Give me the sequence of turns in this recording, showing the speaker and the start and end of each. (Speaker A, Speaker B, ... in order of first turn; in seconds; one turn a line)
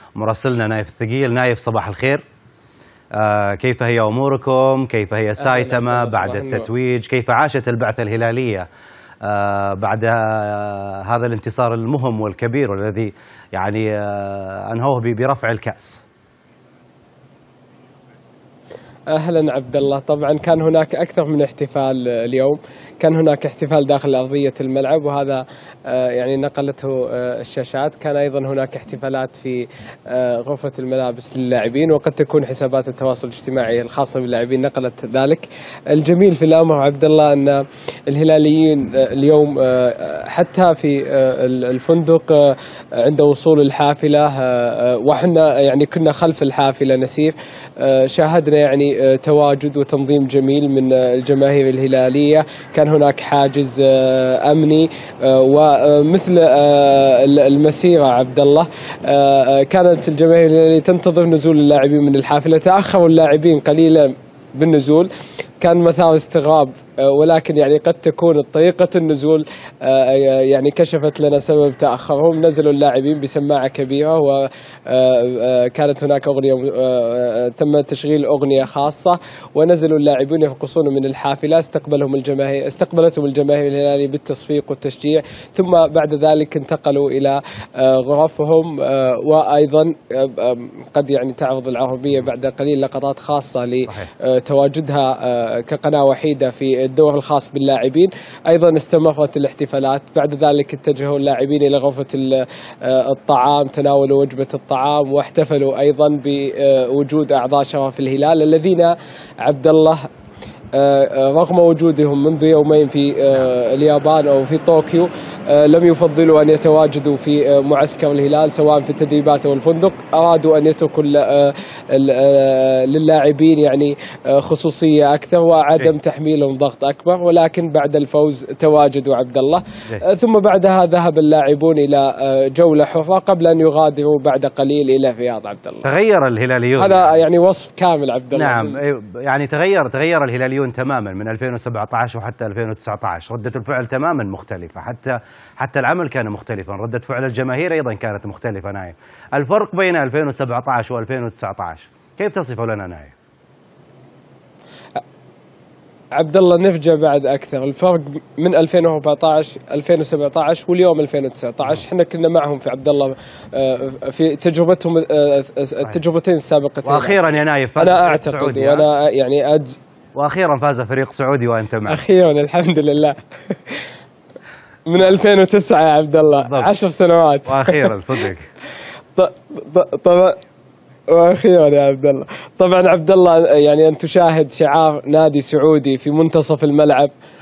Speaker A: 0.2-2.2
Speaker A: 3.1-8.7
Speaker B: 5.4-6.7
Speaker A: 9.2-16.0
Speaker B: 19.1-110.0
Speaker B: 110.7-135.9
Speaker A: 135.8-137.1
Speaker B: 136.8-138.8
Speaker A: 138.3-153.1
Speaker B: 156.2-167.2
Speaker A: 166.8-168.9
Speaker B: 167.8-169.8
Speaker A: 170.2-172.0
Speaker B: 171.9-173.8
Speaker B: 174.9-177.9
Speaker A: 176.5-176.7
Speaker A: 177.5-178.5
Speaker B: 179.2-180.4
Speaker B: 181.1-187.1